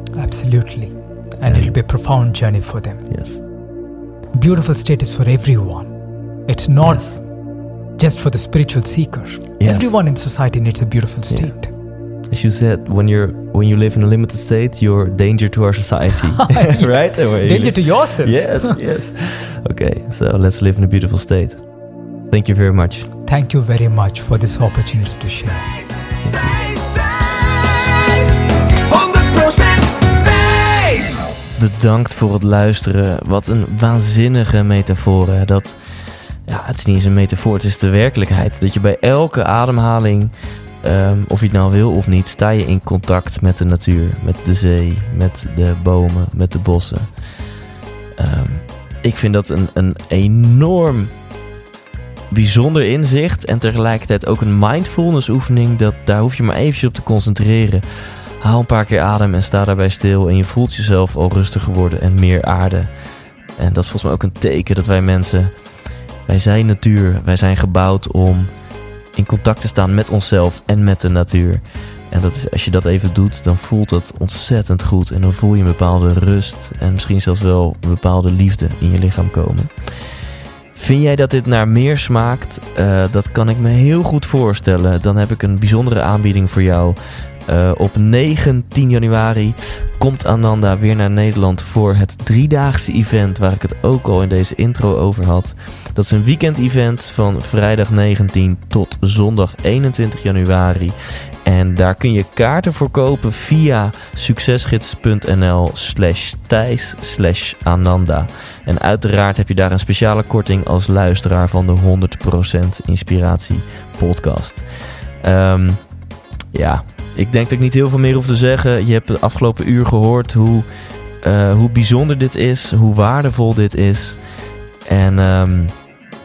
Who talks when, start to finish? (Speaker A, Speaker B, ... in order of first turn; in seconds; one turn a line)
Speaker A: 0.1-3.1
Speaker B: 1.4-1.7
Speaker B: 3.1-3.4
Speaker A: 4.3-5.9
Speaker A: 6.5-7.2
Speaker B: 6.8-7.2
Speaker A: 8.0-11.7
Speaker B: 9.6-9.9
Speaker B: 12.3-21.6
Speaker A: 16.5-18.8
Speaker B: 22.3-23.1
Speaker A: 23.2-25.7
Speaker B: 26.2-26.5
Speaker C: 26.3-31.4
Speaker B: 31.6-47.5
Speaker B: 48.2-51.1
Speaker B: 52.3-62.9
Speaker B: 63.5-68.5
Speaker B: 69.1-114.7
Speaker B: 115.2-115.8
Speaker B: 116.5-120.7
Speaker B: 121.2-124.2
Speaker B: 124.8-125.8